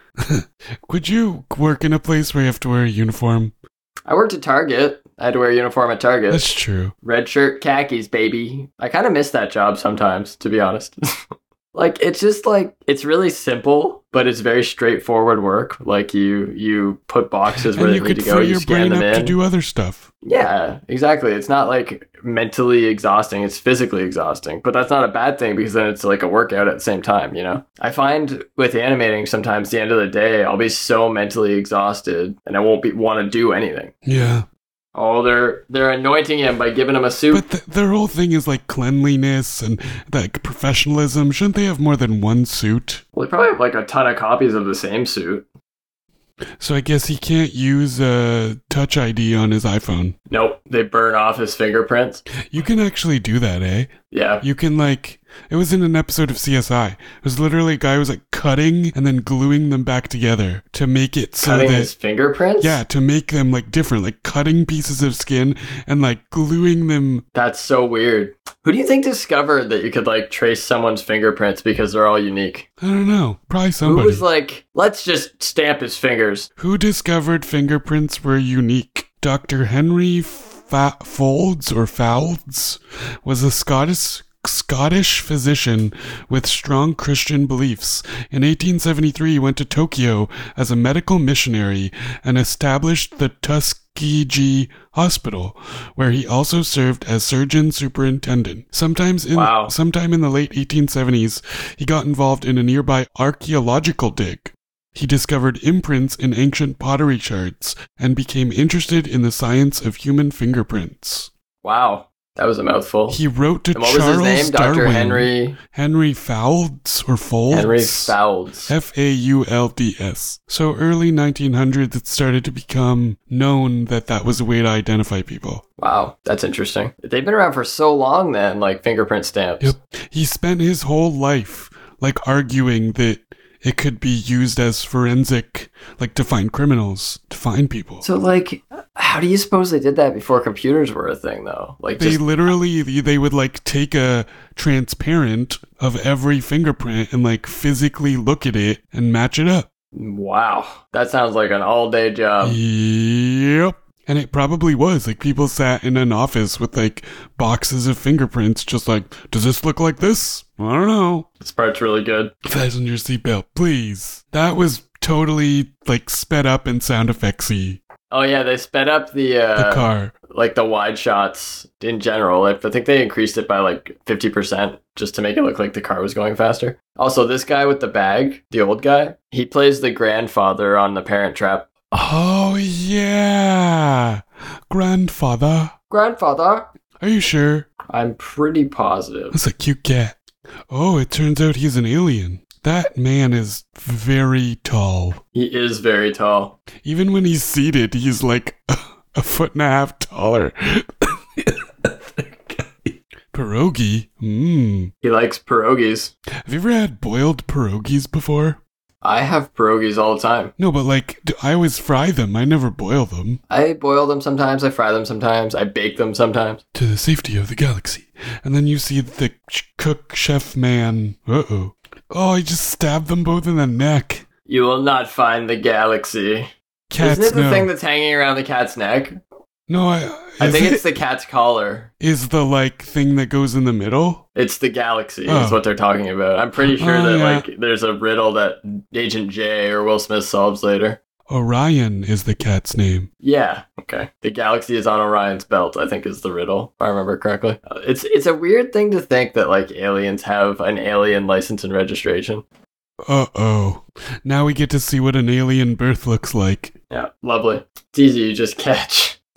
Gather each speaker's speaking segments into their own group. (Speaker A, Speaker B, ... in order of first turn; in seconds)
Speaker A: 0.2-3.5, 6.3-7.0, 17.7-20.1, 34.0-34.5, 37.3-43.0, 46.6-50.1, 52.5-61.9, 62.6-67.2, 72.8-74.2, 76.6-111.3, 113.1-118.2, 118.7-125.6, 129.6-138.1, 142.0-149.7, 152.4-161.3, 162.4-167.8, 169.6-170.1, 181.9-185.7, 187.0-187.7, 189.3-190.2, 190.7-195.2, 196.8-202.7, 203.3-204.9, 206.4-208.6, 210.6-213.4, 216.7-224.2, 226.9-227.7, 229.7-230.8, 232.0-234.2, 235.3-235.6, 236.6-237.4, 241.3-243.1, 253.1-256.8
Speaker B: 4.1-6.4, 7.0-11.0, 11.7-19.4, 20.2-33.9, 35.0-37.4, 43.2-45.5, 50.3-52.2, 54.1-54.4, 61.4-62.8, 67.3-72.7, 73.8-76.5, 99.3-99.7, 111.6-113.2, 113.7-115.6, 117.5-118.7, 125.8-129.7, 138.0-142.2, 149.9-152.6, 161.4-162.3, 168.1-181.7, 185.9-186.7, 187.9-189.3, 195.3-196.6, 205.0-206.1, 209.0-210.5, 213.5-216.6, 224.5-229.2, 230.4-231.9, 234.4-241.0, 243.2-252.4, 256.9-259.2